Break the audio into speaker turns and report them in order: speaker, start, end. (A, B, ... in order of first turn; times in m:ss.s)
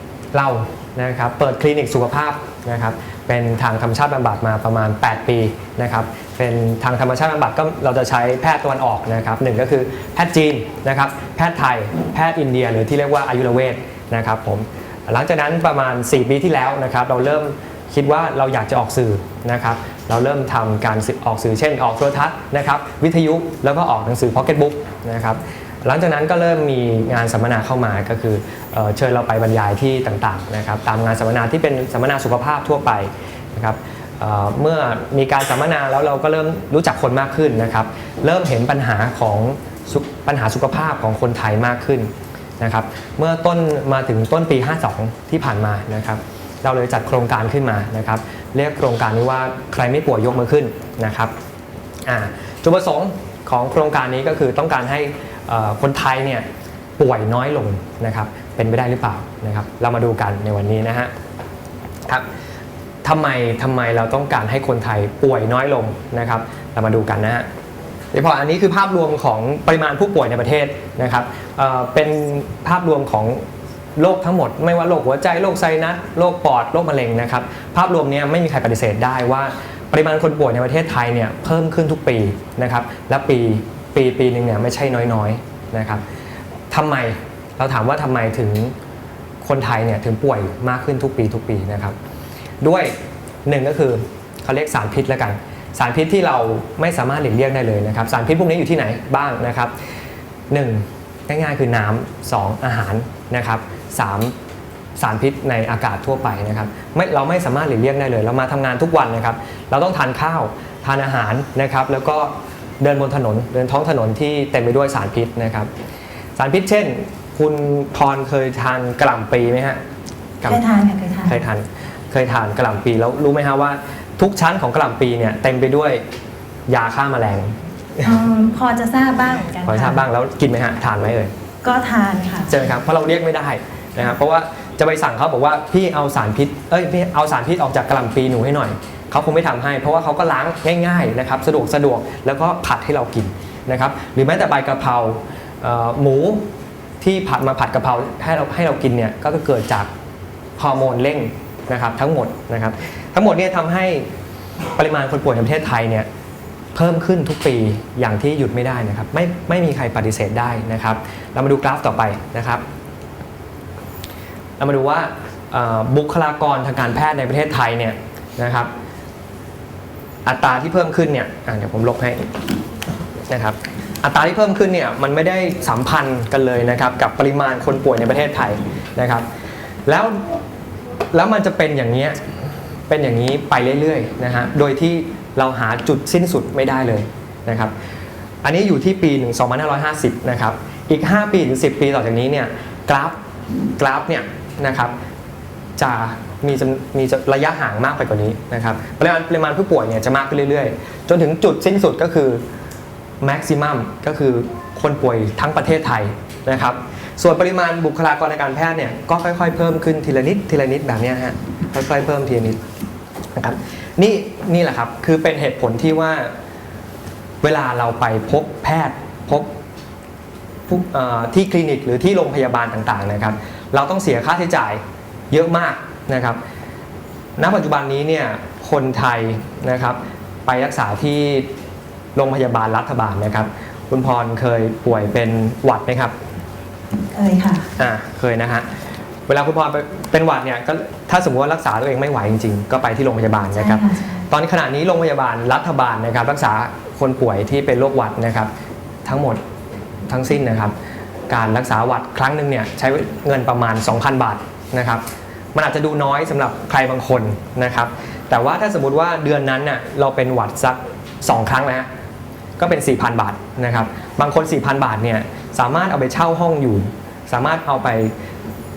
0:00.3-0:51.3 A
0:52.0-0:56.5 A
0:57.0-1:01.1 A
1:03.0-1:07.5 A
1:08.1-1:13.4 A
1:14.0-1:26.0 A
1:26.7-1:28.7 A
1:29.4-1:32.0 A
1:32.6-1:39.7 A
1:40.5-1:44.4 A
1:45.0-1:55.7 A
1:56.4-1:59.8 A
2:00.5-2:01.4 B
2:01.2-2:06.0 A
2:06.7-2:08.2 A
2:08.0-2:10.0 B
2:09.7-2:11.3 A
2:11.6-2:12.5 B
2:12.5-2:26.5 A
2:27.0-2:29.9 A
2:30.6-2:34.1 A
2:34.8-2:36.1 A
2:36.8-2:42.6 A
2:44.6-2:48.7 A
2:50.2-2:52.4 A
2:53.3-2:59.2 A
2:59.9-3:00.2 A
3:01.1-3:02.2 A
3:02.9-3:07.7 A
3:08.4-3:13.2 A
3:13.8-3:15.0 A
3:15.8-3:22.4 A
3:23.2-3:32.6 A
3:33.4-3:36.3 A
3:37.4-3:39.5 A
3:40.7-3:46.4 A
3:47.4-3:51.5 A
3:52.2-3:56.2 A
3:57.1-3:57.7 B
3:57.8-3:58.7 A
3:59.3-4:08.5 A
4:03.6-4:04.2 B
4:09.0-4:09.4 A
4:10.1-4:10.7 A
4:11.3-4:15.0 A
4:15.6-4:21.9 A
4:22.6-4:28.1 A